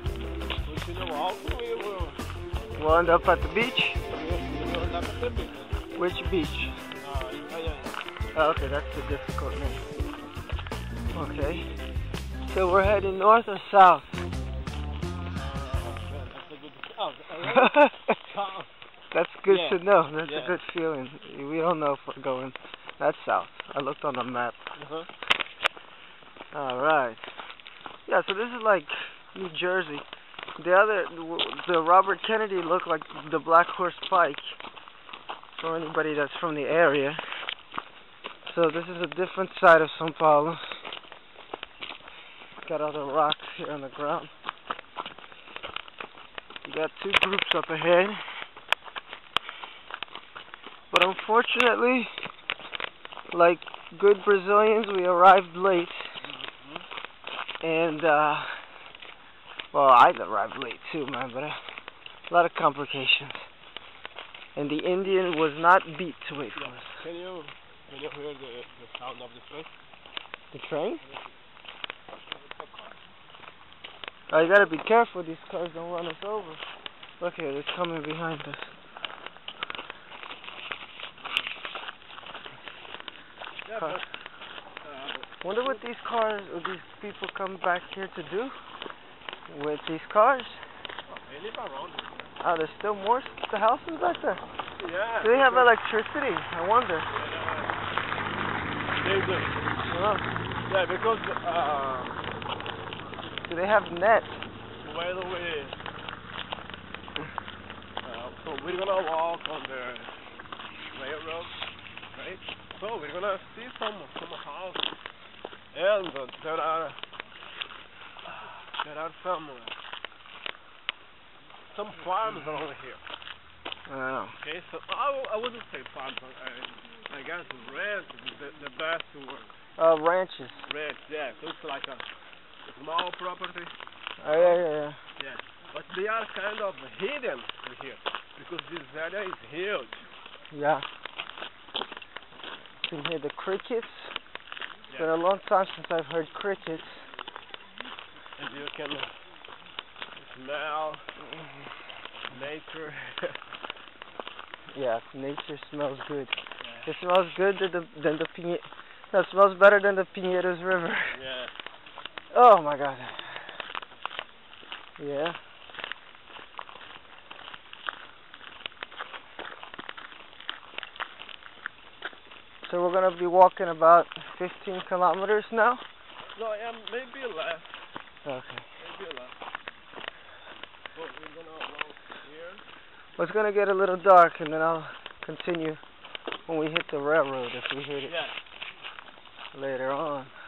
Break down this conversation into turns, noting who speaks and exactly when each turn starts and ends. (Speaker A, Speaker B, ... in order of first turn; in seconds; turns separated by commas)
Speaker A: 0.6-2.2, Speaker B: 2.8-4.0, Speaker A: 4.1-5.7, Speaker B: 5.9-6.7, Speaker A: 7.0-8.0, Speaker B: 8.3-9.8, Speaker B: 11.1-11.7, Speaker B: 12.5-14.2, Speaker A: 15.3-18.7, Speaker B: 17.5-18.1, Speaker B: 19.1-24.6, Speaker A: 19.4-20.6, Speaker A: 24.8-25.1, Speaker B: 26.5-27.2, Speaker B: 28.1-30.0, Speaker B: 30.6-34.5, Speaker B: 35.6-37.2, Speaker B: 38.5-40.6, Speaker B: 42.6-44.3, Speaker B: 46.6-48.2, Speaker B: 50.9-52.1, Speaker B: 53.3-56.0, Speaker A: 56.2-56.9, Speaker B: 57.6-58.6, Speaker B: 59.7-61.5, Speaker B: 62.3-63.4, Speaker B: 64.5-67.0, Speaker A: 66.5-69.7, Speaker B: 70.5-71.0, Speaker A: 71.0-71.3, Speaker A: 72.2-73.0, Speaker B: 74.3-76.6, Speaker B: 77.2-78.7, Speaker A: 83.6-84.1, Speaker A: 84.8-85.8, Speaker B: 85.4-88.5, Speaker B: 89.5-90.6, Speaker A: 91.1-92.1, Speaker B: 92.4-94.4, Speaker A: 94.8-95.7, Speaker B: 95.2-97.1, Speaker A: 97.1-97.8, Speaker A: 99.0-99.6, Speaker B: 99.9-100.2, Speaker A: 100.7-102.2, Speaker B: 103.5-104.4, Speaker A: 104.8-105.8, Speaker A: 108.0-110.1, Speaker A: 110.9-111.5, Speaker A: 112.1-114.8, Speaker A: 115.7-117.0, Speaker A: 118.3-119.8, Speaker A: 121.7-123.0, Speaker B: 123.9-124.4, Speaker A: 124.4-129.5, Speaker B: 129.8-130.6, Speaker A: 130.7-132.1, Speaker A: 132.6-133.7, Speaker B: 134.2-135.0, Speaker A: 134.3-134.6, Speaker A: 135.2-140.0, Speaker B: 140.5-140.8, Speaker B: 142.8-144.1, Speaker B: 145.0-146.9, Speaker A: 148.4-149.1, Speaker A: 150.2-151.0, Speaker A: 152.2-153.4, Speaker B: 154.7-161.2, Speaker A: 156.6-156.9, Speaker A: 161.1-161.5, Speaker B: 162.3-163.5, Speaker B: 165.0-165.4, Speaker B: 172.7-175.8, Speaker A: 176.4-177.7, Speaker B: 178.2-178.6, Speaker A: 178.8-179.3, Speaker A: 180.9-182.6, Speaker B: 183.2-185.8, Speaker B: 186.5-188.2, Speaker A: 188.0-188.4, Speaker B: 189.5-190.3